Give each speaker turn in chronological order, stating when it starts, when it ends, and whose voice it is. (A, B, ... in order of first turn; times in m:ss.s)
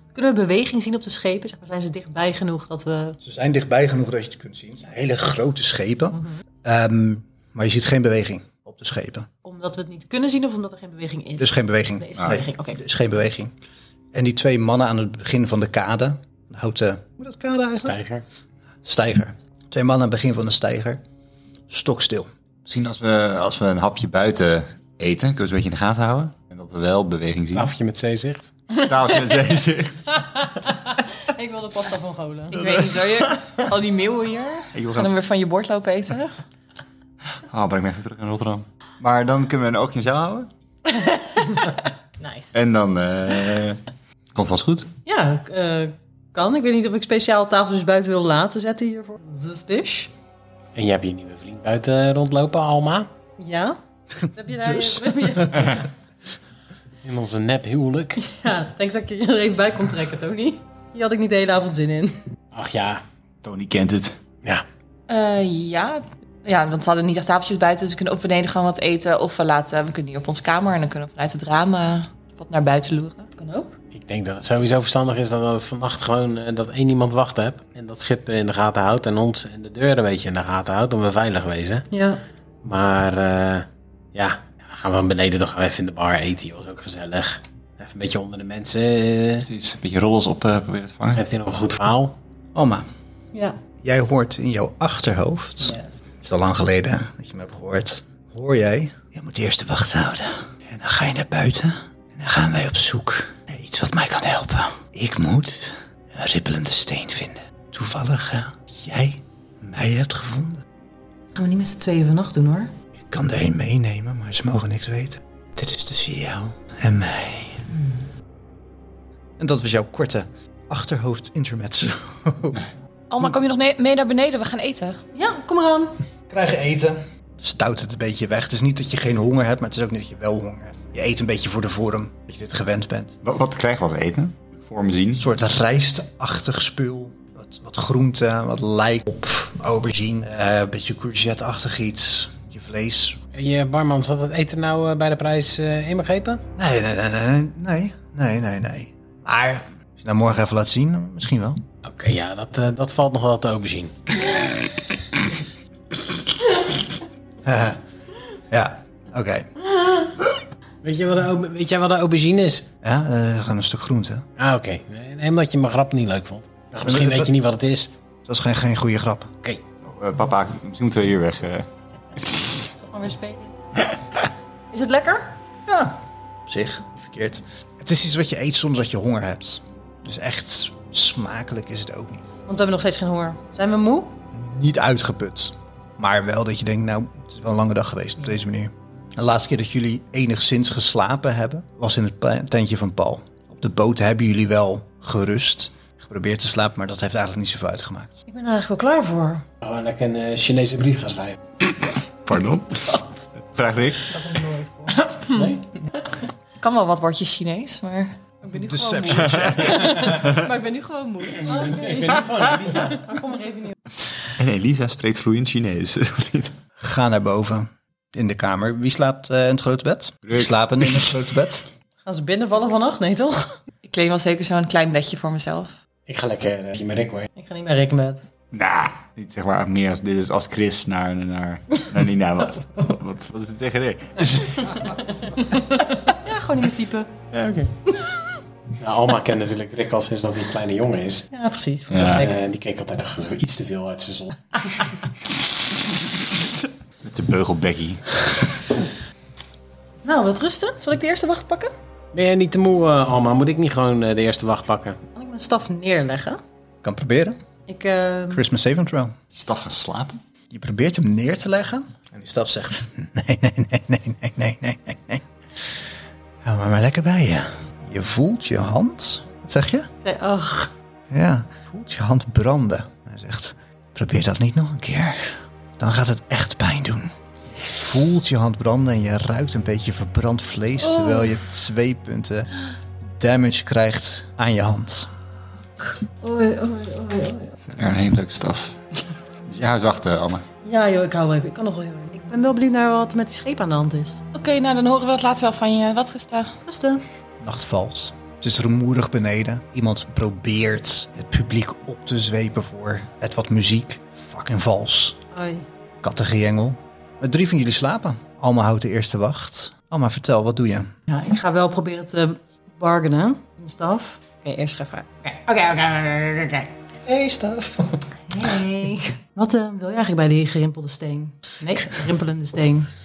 0:00.2-0:03.2 A
0:03.2-0:09.3 B
0:06.1-0:06.4 A
0:09.4-0:12.8 A
0:11.4-0:13.6 B
0:14.1-0:18.0 B
0:17.8-0:18.2 C
0:18.8-0:21.0 B
0:21.7-0:22.3 B
0:22.7-0:27.7 D
0:27.5-0:28.5 C
0:28.8-0:30.3 D
0:30.4-0:32.6 A
0:32.5-0:33.5 D
0:32.5-0:36.4 E
0:34.7-0:35.1 D
0:37.5-0:40.5 D
0:40.9-0:42.5 A
0:42.5-0:43.8 D
0:44.4-0:44.9 D
0:45.1-0:50.1 A
0:50.8-0:53.1 C
0:53.4-0:53.8 A
0:54.3-0:55.6 B
0:54.4-0:55.9 A
0:57.0-0:58.2 C
0:58.2-1:02.2 A
1:02.5-1:03.0 C
1:03.4-1:04.2 D
1:05.1-1:13.3 E
1:13.4-1:13.8 A
1:13.9-1:21.9 C
1:21.9-1:22.2 A
1:22.6-1:29.5 C
1:29.5-1:31.2 D
1:31.2-1:32.2 C
1:32.6-1:32.9 B
1:33.8-1:50.6 B
1:35.6-1:36.0 A
1:51.3-1:52.7 A
1:53.1-1:57.7 B
1:59.4-2:02.6 B
2:03.1-2:05.0 E
2:05.1-2:06.0 A
2:06.3-2:13.2 B
2:13.2-2:15.2 D
2:15.2-2:23.2 B
2:23.3-2:26.4 C
2:26.6-2:31.6 B
2:31.8-2:33.9 C
2:37.4-2:37.8 B
2:38.5-2:39.5 B
2:40.8-2:42.7 C
2:42.8-2:44.3 B
2:44.4-2:47.9 C
2:46.8-2:47.3 B
2:48.3-2:49.4 B
2:49.9-2:51.7 D
2:52.8-2:53.6 A
2:54.7-2:55.4 A
2:55.7-3:02.4 B
3:02.5-3:04.2 A
3:04.3-3:18.2 B
3:18.3-3:19.4 A
3:19.6-3:21.4 C
3:22.3-3:23.0 D
3:23.5-3:24.1 D
3:24.1-3:25.4 A
3:25.2-3:25.6 C
3:26.6-3:31.8 E
3:28.5-3:30.0 B
3:29.2-3:30.4 D
3:31.4-3:33.8 A
3:31.5-3:33.1 C
3:34.2-3:36.6 D
3:36.8-3:41.6 B
3:40.2-3:41.2 D
3:42.0-3:43.6 A
3:43.8-3:45.8 E
3:46.1-3:47.3 C
3:47.4-3:48.3 A
3:48.5-3:55.1 D
3:55.6-3:57.1 A
3:57.3-3:57.7 D
3:58.8-4:01.3 C
4:01.3-4:02.3 A
4:01.9-4:02.3 D
4:02.0-4:04.4 C
4:07.0-4:08.6 D
4:10.0-4:11.7 A
4:12.1-4:15.0 C
4:15.2-4:16.4 A
4:16.8-4:17.4 B
4:17.7-4:18.4 A
4:18.3-4:19.2 B
4:19.3-4:20.2 D
4:20.5-4:25.7 B
4:26.4-4:29.9 B
4:30.0-4:30.7 A
4:31.1-4:45.1 B
4:46.2-4:47.6 A
4:47.6-4:48.8 D
4:49.5-4:50.4 D
4:50.6-4:54.2 A
4:54.3-4:56.6 E
4:56.7-4:57.0 A
4:57.4-5:05.2 B
5:05.3-5:05.7 A
5:06.0-5:10.9 B
5:11.1-5:16.7 A
5:17.0-5:18.5 B
5:18.3-5:22.9 A